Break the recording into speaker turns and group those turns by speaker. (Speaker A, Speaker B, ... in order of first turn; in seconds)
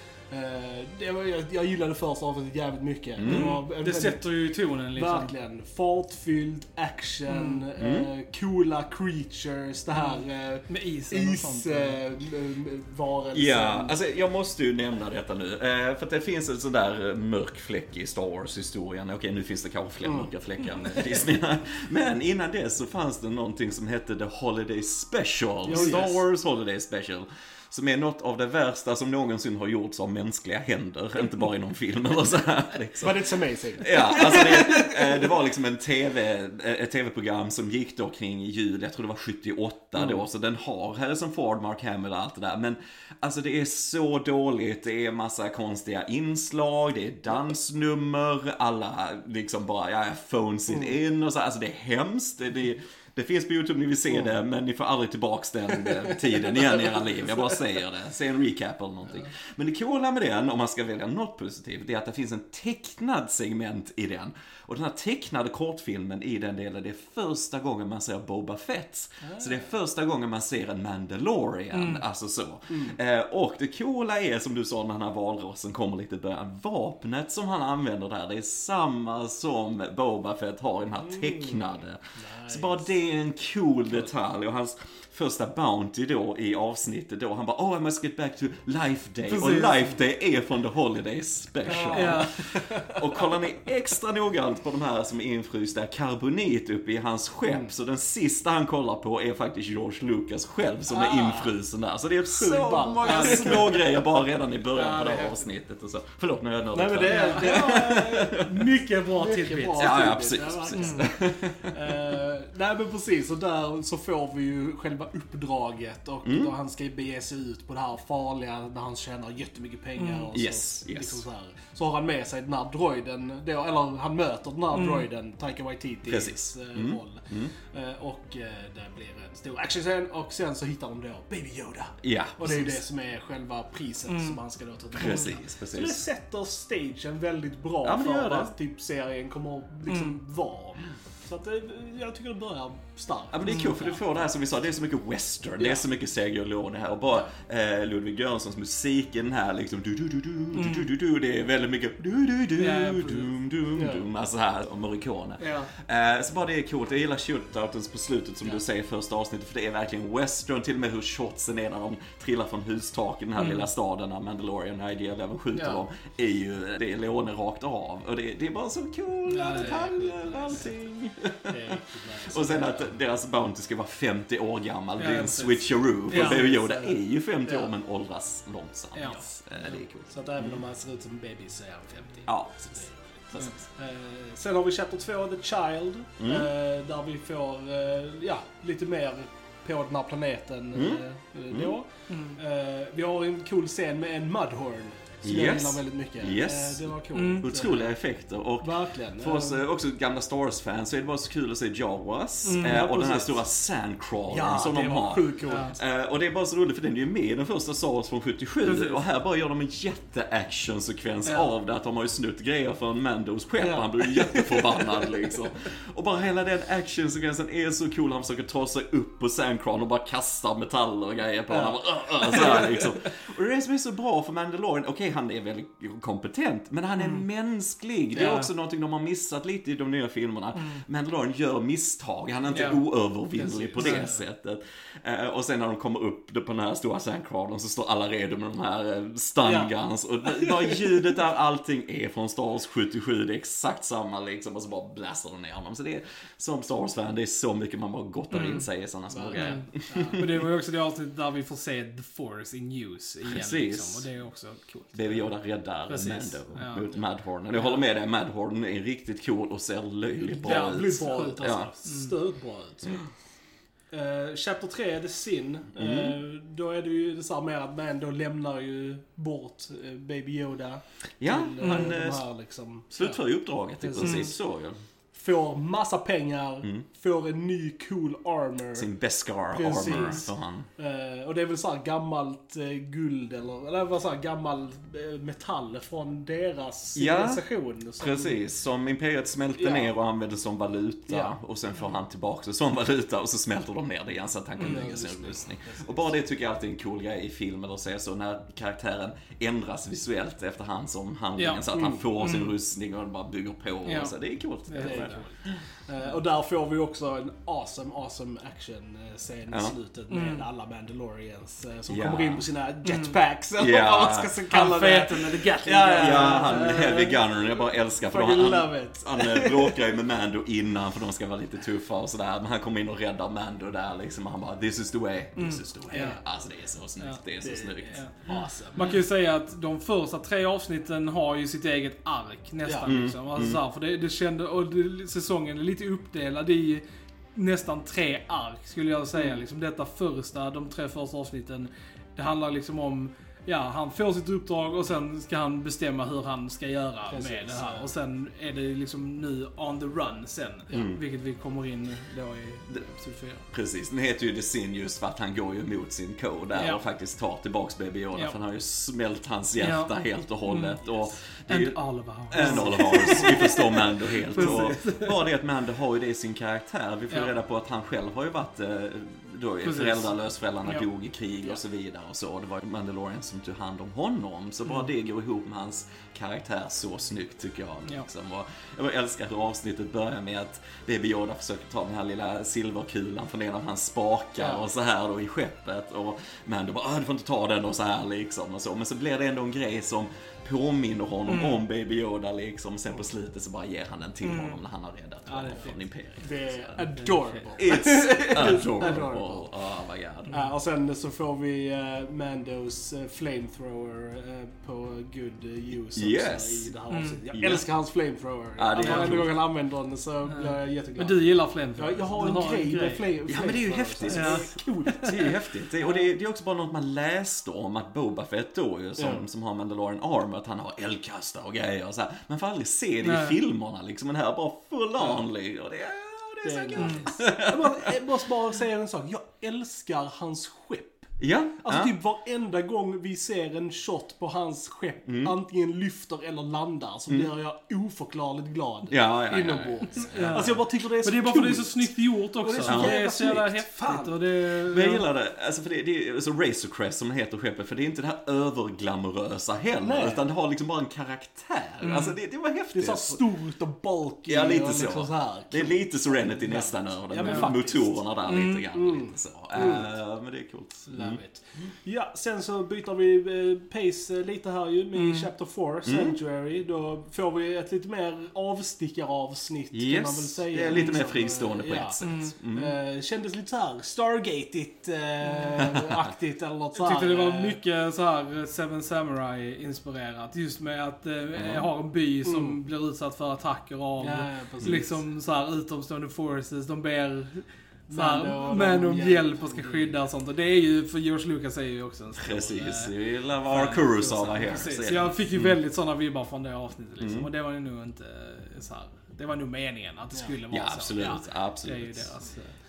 Speaker A: 0.3-4.2, 5.0-13.9, 20.0-20.3, 25.7-26.2, 33.0-35.2, 55.8-57.1, 69.2-69.7, 72.7-73.0, 81.1-82.9, 91.7-93.0, 97.5-97.7, 100.9-101.5, 102.3-103.8, 104.7-105.4, 106.7-144.0, 153.8-154.1, 165.5-165.8, 171.4-172.9, 176.1-177.7, 179.6-197.9, 198.6-199.6, 202.6-203.4, 204.3-205.8, 213.6-215.1, 221.5-222.9, 233.4-234.1, 249.1-250.3, 260.2-263.1, 263.9-273.2, 273.8-274.3, 275.1-278.9, 279.5-288.4, 289.6-289.9, 291.1-291.4, 294.6-296.2, 301.7-302.0, 304.8-317.2, 318.0-319.8, 325.9-326.2, 327.4-328.9, 332.6-332.9, 347.1-347.9, 362.4-363.6, 364.4-364.7, 396.2-399.5, 400.3-416.0, 419.0-419.2, 426.4-431.1, 431.6-444.2, 449.8-450.3, 452.7-458.0, 458.7-459.9, 460.9-477.6, 482.2-482.6, 484.0-485.0, 487.9-490.0
Speaker B: 3.2-3.6, 7.8-8.1, 13.3-108.5, 109.8-112.0, 116.2-116.5, 120.3-121.2, 126.1-127.5, 132.0-132.8, 134.9-136.0, 137.8-138.5, 143.3-180.6, 182.3-182.6, 186.2-186.5, 190.7-191.7, 195.2-250.3, 253.2-254.1, 254.9-261.7, 265.8-266.1, 271.2-272.2, 272.9-274.8, 278.8-280.7, 287.0-287.4, 288.0-305.6, 309.5-309.8, 311.9-312.4, 313.6-314.3, 315.9-328.0, 332.9-333.6, 350.7-351.0, 353.5-361.8, 362.3-396.8, 397.6-400.3, 405.9-406.7, 407.3-407.6, 408.6-409.3, 413.3-427.7, 431.2-431.9, 435.1-435.4, 438.9-440.6, 442.6-443.0, 444.6-453.2, 454.3-461.7, 465.9-466.2, 469.7-472.7, 481.4-481.7, 492.2-495.6, 497.0-497.3, 500.5-502.1
Speaker C: 3.2-5.3, 7.3-7.7, 9.9-12.0, 25.7-26.1, 71.7-72.0, 89.3-89.9, 91.9-92.3, 103.0-103.6, 107.0-110.1, 110.8-111.1, 120.0-120.3, 124.7-125.1, 134.1-134.4, 135.0-135.3, 139.9-140.2, 150.5-150.9, 152.6-153.3, 155.4-155.7, 163.4-163.7, 169.3-170.6, 175.0-176.5, 178.9-179.4, 192.1-192.4, 197.1-197.8, 202.4-202.9, 205.5-205.7, 208.6-209.0, 227.0-227.2, 228.2-228.5, 230.6-230.8, 232.5-232.8, 233.4-234.2, 248.3-248.7, 249.3-255.3, 255.9-256.9, 257.5-257.9, 260.5-262.1, 271.6-271.9, 274.0-274.3, 279.8-280.2, 294.6-294.9, 301.4-301.7, 302.2-302.6, 303.9-304.1, 304.7-305.2, 310.1-310.4, 312.9-313.2, 314.5-317.0, 325.4-326.2, 328.8-336.8, 337.4-353.5, 356.6-356.8, 359.6-359.9, 360.4-360.8, 361.5-365.2, 369.6-370.1, 391.3-391.6, 394.2-394.6, 395.3-395.9, 396.8-397.6, 406.9-407.2, 408.8-409.2, 410.3-413.0, 414.1-415.2, 423.0-423.4, 426.8-427.1, 440.1-445.1, 451.8-452.1, 457.2-457.6, 458.3-458.7, 464.9-465.3, 472.0-472.4, 476.8-492.9, 493.5-502.6